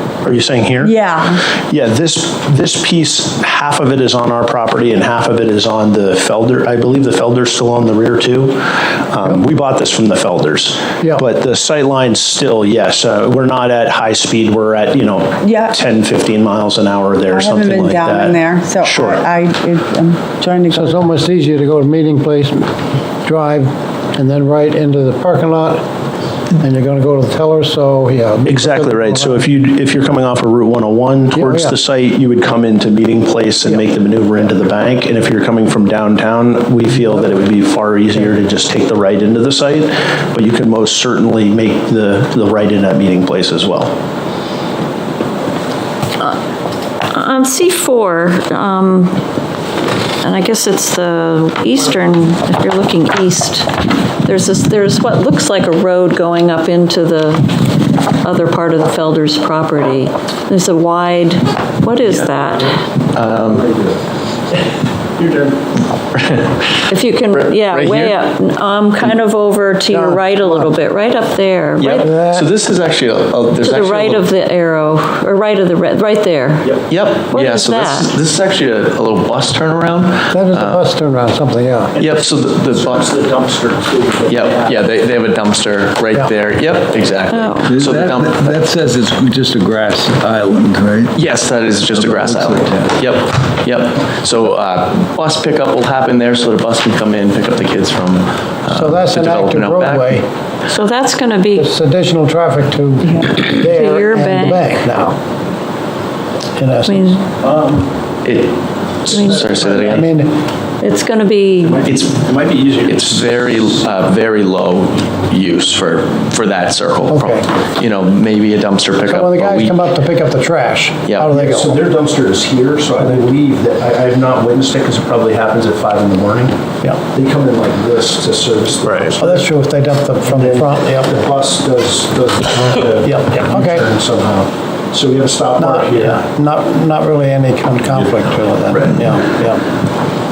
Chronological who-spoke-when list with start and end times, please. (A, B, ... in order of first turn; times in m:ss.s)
0:00.2-0:19.3 A
0:00.8-0:01.4 B
0:15.4-0:15.8 B
0:17.3-0:21.0 B
0:20.7-0:22.7 C
0:23.2-0:25.8 C
0:26.6-0:29.5 C
0:28.4-0:43.9 A
0:31.3-0:31.8 C
0:47.1-0:49.2 D
0:50.2-0:53.7 D
0:54.2-0:57.6 D
0:58.2-1:02.7 D
1:02.0-1:02.5 E
1:03.1-1:03.8 E
1:06.1-1:08.2 E
1:06.9-1:12.2 D
1:09.9-1:10.7 C
1:11.8-1:14.3 E
1:12.0-1:12.5 C
1:13.6-1:16.7 D
1:16.9-1:20.8 E
1:17.3-1:18.1 D
1:20.3-1:21.9 C
1:22.0-1:23.2 E
1:22.0-1:24.8 A
1:24.3-1:28.7 E
1:27.3-1:27.8 D
1:27.7-1:31.1 F
1:31.1-1:40.2 E
1:32.0-1:32.6 F
1:38.7-1:40.3 C
1:40.7-1:41.7 D
1:41.6-1:45.2 C
1:43.4-1:44.7 D
1:46.6-1:47.2 C
1:46.9-1:47.3 D
1:47.4-1:47.8 A
1:48.2-1:50.1 E
1:49.1-1:49.5 D
1:49.8-1:50.3 C
1:50.8-1:51.9 D
1:51.6-1:53.8 A
1:51.8-1:52.1 E
1:52.9-1:59.8 E
1:57.1-1:57.5 C
1:59.1-2:01.8 C
2:01.1-2:01.3 E
2:01.3-2:09.5 A
2:08.8-2:09.1 E
2:09.2-2:11.1 C
2:10.2-2:16.2 A
2:13.0-2:13.9 C
2:15.6-2:19.6 C